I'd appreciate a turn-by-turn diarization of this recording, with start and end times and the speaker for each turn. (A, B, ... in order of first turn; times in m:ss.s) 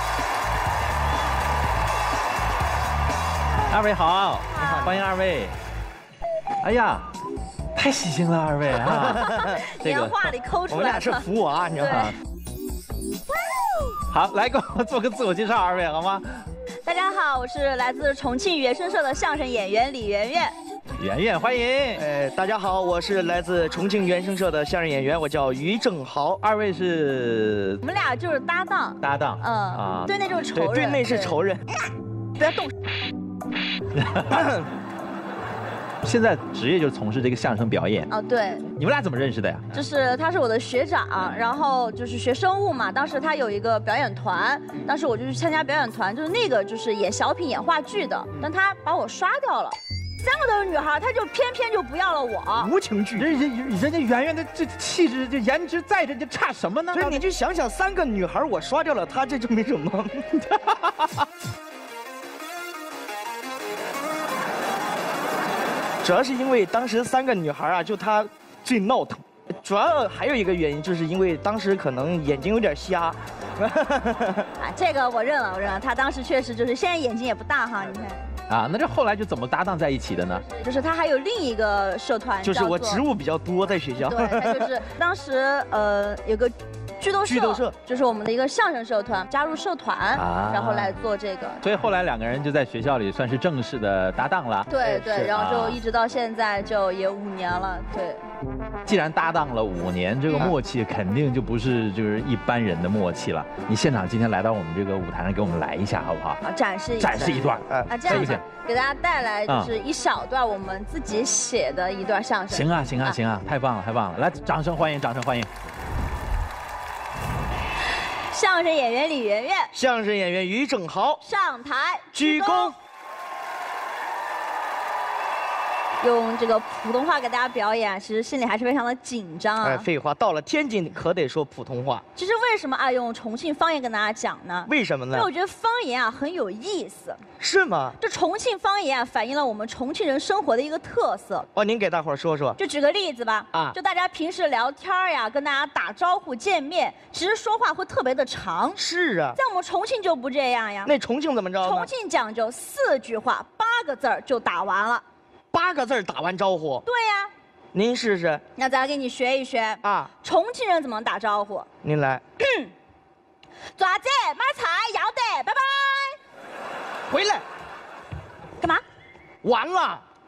0:03.7-0:05.5 A
0:04.6-0:04.9 B
0:04.6-0:05.0 C
0:06.6-0:07.1 A
0:07.7-0:10.3 A
0:09.0-0:11.2 B
0:10.7-0:12.1 C
0:11.8-0:12.1 B
0:11.9-0:12.2 A
0:14.1-0:16.2 A
0:16.8-0:20.5 B
0:21.0-0:22.0 A
0:22.0-0:26.4 C
0:26.4-0:27.8 A
0:27.8-0:31.4 B
0:29.0-0:30.1 A
0:30.5-0:31.7 C
0:32.4-0:32.7 B
0:34.1-0:34.4 A
0:34.3-0:34.6 C
0:36.0-0:38.1 A
0:38.1-0:38.7 B
0:38.7-0:39.7 A
0:39.7-0:52.7 B
0:52.6-0:53.3 C
0:53.2-0:57.2 A
0:56.9-1:00.3 C
1:00.5-1:01.1 A
1:06.0-1:14.5 C
1:14.6-1:18.3 B
1:18.5-1:20.4 A
1:20.4-1:23.0 B
1:22.4-1:24.7 C
1:24.0-1:31.6 B
1:27.3-1:27.7 C
1:30.1-1:31.0 A
1:31.6-1:35.8 A
1:34.7-1:38.2 B
1:34.8-1:35.3 C
1:38.8-1:46.4 A
1:46.4-1:53.2 B
1:47.0-1:48.4 A
1:47.7-1:48.4 C
1:52.5-1:55.5 A
1:58.3-1:59.7 B
1:59.7-2:01.2 C
2:01.2-2:02.8 B
2:02.1-2:02.7 C
2:06.0-2:09.9 B
2:09.6-2:12.0 C
2:12.1-2:17.2 B
2:14.7-2:15.3 C
2:17.4-2:18.0 C
2:18.0-2:21.5 B
2:21.5-2:22.6 C
2:22.6-2:28.8 B
2:28.8-2:29.4 C
2:29.3-2:30.9 B
2:30.8-2:31.9 C
2:31.6-2:35.0 B
2:35.5-2:36.8 C
2:36.8-2:37.3 B
2:37.7-2:38.4 C
2:38.6-2:41.7 B
2:39.8-2:40.1 C
2:41.8-2:42.2 C
2:42.4-2:42.7 B
2:43.8-2:46.2 B
2:47.1-2:47.4 C
2:49.4-2:50.0 C